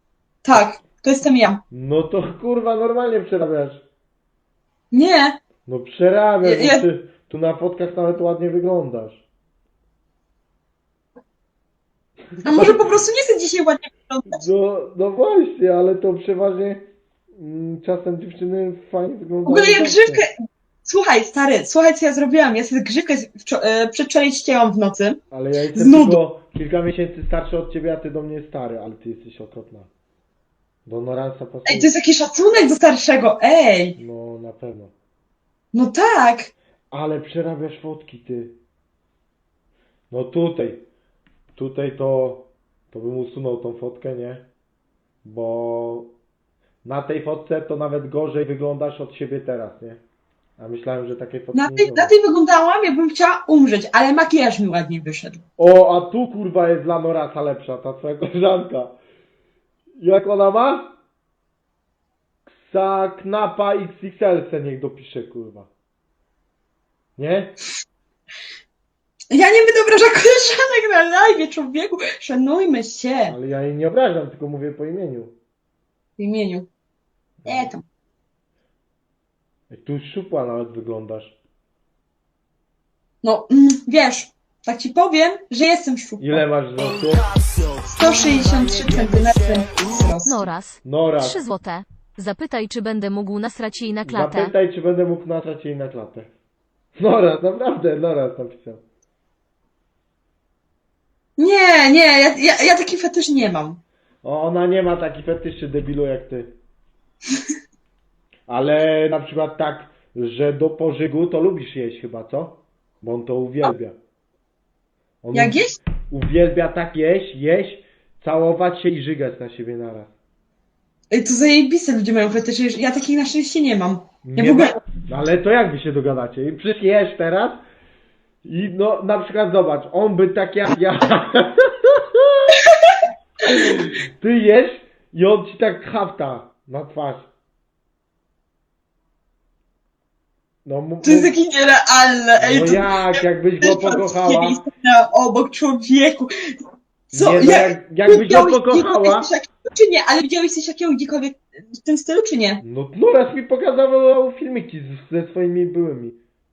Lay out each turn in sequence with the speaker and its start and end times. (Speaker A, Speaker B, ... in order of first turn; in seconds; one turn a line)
Speaker A: 0.4-1.6
Speaker B: 1.7-3.8
Speaker A: 4.9-5.4
Speaker B: 5.7-9.2
Speaker A: 6.4-6.8
Speaker B: 12.3-13.0
Speaker A: 12.4-14.4
Speaker B: 14.3-20.2
Speaker A: 19.4-20.3
Speaker A: 20.8-25.2
Speaker B: 25.3-29.9
Speaker A: 25.7-26.2
Speaker B: 30.9-31.9
Speaker A: 31.6-34.0
Speaker B: 34.0-34.9
Speaker A: 35.7-36.5
Speaker B: 36.9-38.6
Speaker B: 40.1-40.9
Speaker B: 41.6-44.4
Speaker B: 45.2-46.1
Speaker B: 46.8-50.0
Speaker B: 50.6-52.1
Speaker A: 51.5-55.4
Speaker B: 55.6-59.0
Speaker B: 60.0-60.9
Speaker B: 62.5-65.7
Speaker B: 67.2-67.6
Speaker A: 69.3-73.4
Speaker B: 73.3-75.3
Speaker A: 76.2-76.7
Speaker B: 77.4-77.7
Speaker A: 77.5-77.8
Speaker B: 79.7-81.4
Speaker A: 83.2-86.4
Speaker B: 86.2-87.3
Speaker A: 87.9-90.4
Speaker C: 90.2-94.5
Speaker B: 90.8-91.4
Speaker B: 94.0-96.3
Speaker B: 97.0-98.8
Speaker A: 101.4-103.8
Speaker B: 104.2-106.5
Speaker B: 108.5-114.0
Speaker B: 115.2-120.1
Speaker A: 115.3-115.8
Speaker A: 121.1-124.8
Speaker B: 124.2-127.6
Speaker B: 128.4-132.6
Speaker A: 132.6-133.0
Speaker B: 133.5-137.3
Speaker B: 140.6-141.3
Speaker A: 141.0-146.6
Speaker B: 142.4-144.6
Speaker B: 147.1-149.3
Speaker A: 147.1-152.6
Speaker B: 152.6-156.2